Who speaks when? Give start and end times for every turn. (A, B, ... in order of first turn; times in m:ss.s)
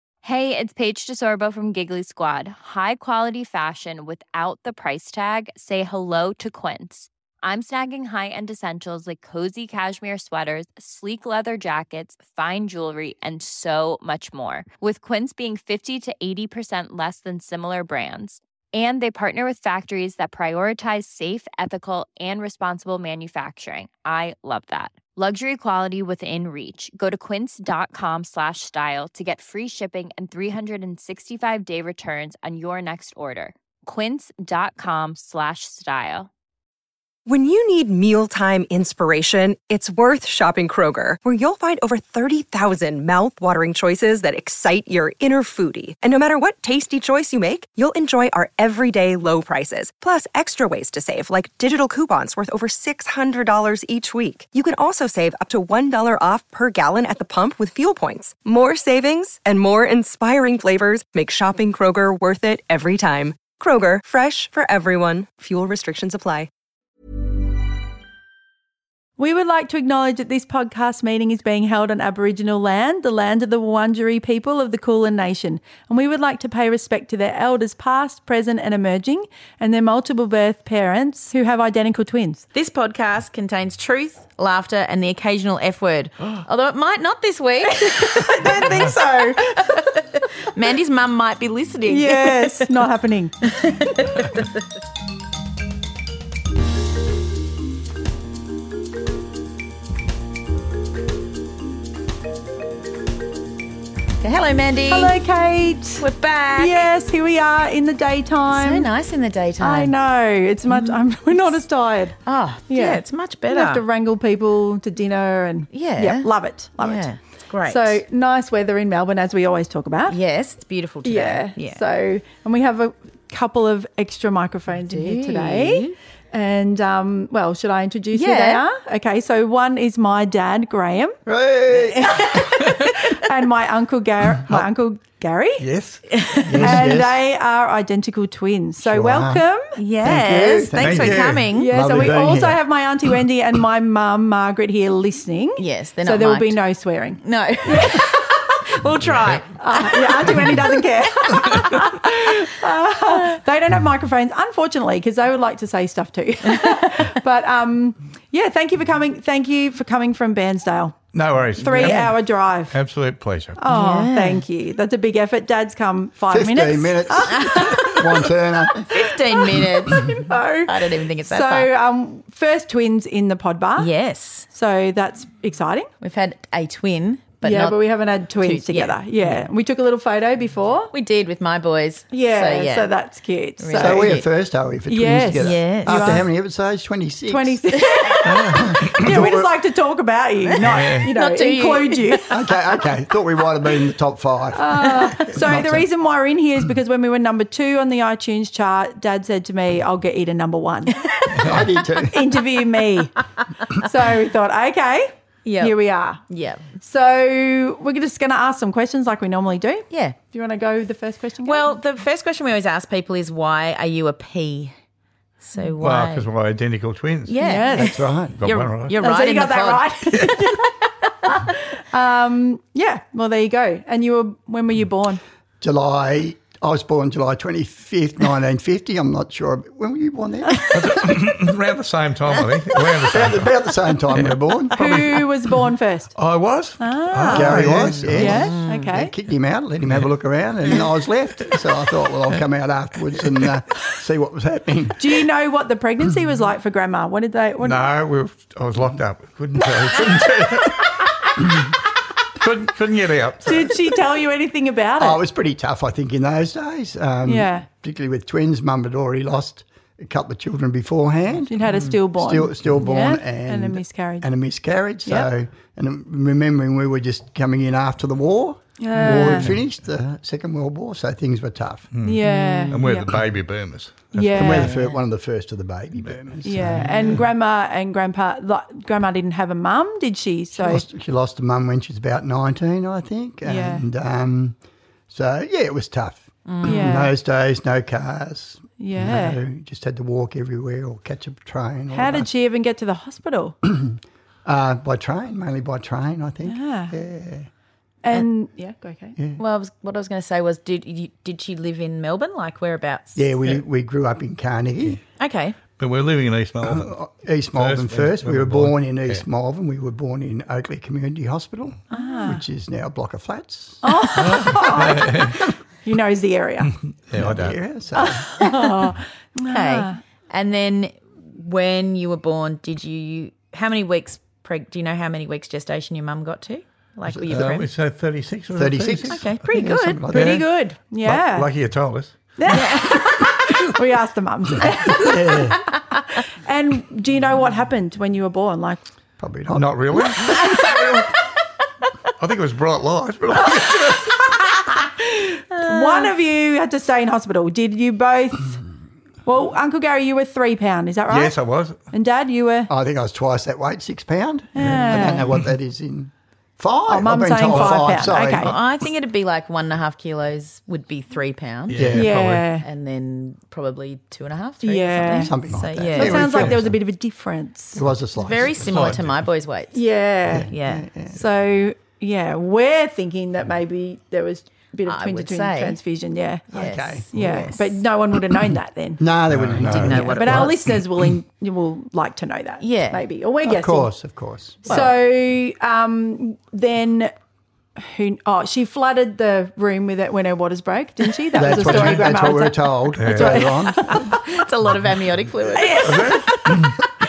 0:00.2-0:36.3 A
0:37.2-1:06.5 B
1:09.2-1:22.4 C
1:22.5-1:28.4 D
1:27.8-1:29.8 C
1:28.6-1:28.9 E
1:29.6-1:32.7 D
1:31.8-1:33.3 C
1:33.6-1:34.4 D
1:44.2-1:45.1 D
1:44.9-1:48.9 C
1:46.0-1:46.9 D
1:48.5-1:49.9 D
1:49.6-1:52.2 C
1:50.7-1:51.0 D
1:52.2-1:53.8 D
1:52.7-1:57.1 C
1:55.7-1:56.3 D
1:56.8-1:58.0 D
1:57.6-2:00.2 C
2:00.1-2:01.8 D
2:01.0-2:11.2 C
2:04.9-2:06.0 D
2:08.1-2:08.6 D
2:11.2-2:12.4 F
2:12.0-2:15.7 C
2:12.6-2:12.9 E
2:15.6-2:16.8 E
2:16.1-2:16.6 D
2:16.5-2:17.2 F
2:16.5-2:19.8 C
2:18.8-2:19.4 F
2:19.8-2:21.7 D
2:20.0-2:22.6 F
2:20.7-2:21.5 E
2:21.5-2:28.0 C
2:25.6-2:26.6 D
2:27.2-2:30.6 D
2:29.0-2:29.4 E
2:29.6-2:42.8 C
2:31.4-2:32.0 D
2:41.1-2:43.6 E
2:43.6-2:48.2 C
2:43.7-2:44.4 D
2:46.2-2:48.9 F
2:47.3-2:47.9 D
2:48.9-2:51.7 D
2:49.5-2:53.9 C
2:53.8-2:54.5 D
2:54.5-2:55.9 C
2:56.0-2:57.9 D
2:57.4-3:00.9 C
2:58.4-2:59.5 D
3:00.9-3:02.9 D
3:02.1-3:04.2 C
3:03.6-3:04.3 D
3:03.8-3:07.6 F
3:04.9-3:06.3 C
3:05.4-3:06.2 D
3:07.3-3:12.4 C
3:07.8-3:08.2 D
3:08.3-3:09.5 F
3:08.7-3:09.3 E
3:10.6-3:11.1 E
3:10.9-3:12.2 D
3:12.3-3:15.9 F
3:14.5-3:21.1 C
3:21.4-3:21.6 E
3:21.4-3:22.4 F
3:22.0-3:26.2 C
3:25.4-3:26.6 D
3:26.8-3:31.8 C
3:29.9-3:30.2 D
3:31.4-3:34.8 D
3:35.4-3:36.3 D
3:35.8-3:37.4 E
3:37.3-3:40.3 D
3:37.4-3:38.1 C
3:37.8-3:38.4 F
3:38.3-3:39.0 E
3:39.0-3:40.7 C
3:41.2-3:45.2 C
3:45.6-3:51.1 F
3:50.7-3:53.5 E
3:53.0-3:55.1 F
3:54.1-3:55.2 E
3:54.7-3:56.2 C
3:56.1-3:58.5 E
3:56.8-3:59.1 C
3:57.3-4:05.1 F
3:58.2-3:58.9 D
4:05.0-4:07.9 C
4:07.6-4:11.4 E
4:12.4-4:13.8 E
4:13.4-4:15.2 C
4:15.0-4:31.9 F
4:17.2-4:17.6 C
4:21.5-4:24.2 C
4:28.8-4:29.6 C
4:31.9-4:34.8 E
4:32.0-4:33.2 C
4:32.2-4:33.1 D
4:34.1-4:34.8 C
4:34.3-4:37.2 F
4:36.1-4:37.2 E
4:36.4-4:40.8 C
4:40.5-4:44.6 F
4:43.4-4:43.8 C
4:45.1-4:52.3 F
4:46.5-4:47.0 D
4:46.6-4:47.1 C
4:48.8-4:49.4 C
4:51.9-4:53.6 C
4:53.6-4:57.5 F
4:56.4-4:56.9 C
4:58.0-4:59.2 C
4:59.4-5:03.3 D
5:03.2-5:05.0 F
5:05.2-5:05.6 D
5:05.8-5:07.0 E
5:06.6-5:14.9 F
5:07.5-5:09.2 E
5:11.9-5:12.4 C
5:11.9-5:12.2 D
5:13.8-5:16.8 C
5:14.1-5:15.4 E
5:17.1-5:17.6 E
5:17.1-5:18.2 F
5:18.0-5:20.0 C
5:18.4-5:18.6 D
5:19.5-5:27.7 D
5:27.3-5:29.4 E
5:28.5-5:30.4 F
5:29.1-5:30.0 D
5:29.4-5:31.5 C
5:30.1-5:32.3 E
5:32.4-5:38.8 C
5:32.5-5:33.2 D
5:34.9-5:35.6 F
5:39.2-5:40.2 F
5:39.5-5:40.8 E
5:42.2-5:44.1 E
5:44.8-5:48.6 C
5:45.5-5:46.1 D
5:49.2-5:52.7 C
5:51.1-5:51.9 E
5:52.7-5:58.5 F
5:54.6-5:55.4 C
5:54.6-5:55.2 E
5:56.9-5:58.5 C
5:57.5-5:58.1 E
5:58.1-6:06.4 D
6:01.7-6:02.4 E
6:01.8-6:02.2 F
6:01.9-6:02.6 C
6:04.6-6:07.8 C
6:05.1-6:06.7 F
6:05.9-6:06.6 E
6:07.7-6:09.0 F
6:08.2-6:10.8 D
6:08.4-6:09.2 E
6:09.7-6:10.5 C
6:10.3-6:11.3 F
6:11.1-6:16.6 C
6:14.8-6:15.8 D
6:16.5-6:17.7 D
6:16.5-6:17.6 F
6:17.1-6:19.1 C
6:19.0-6:20.8 F
6:19.3-6:20.4 E
6:19.6-6:20.5 D
6:19.8-6:23.9 C
6:22.6-6:23.0 D
6:23.4-6:24.8 F
6:24.6-6:27.1 C
6:24.6-6:24.9 D
6:27.8-6:34.2 C
6:31.3-6:34.0 F
6:31.6-6:32.0 E
6:33.0-6:33.5 E
6:33.8-6:36.3 D
6:35.5-6:36.6 C
6:35.8-6:36.8 E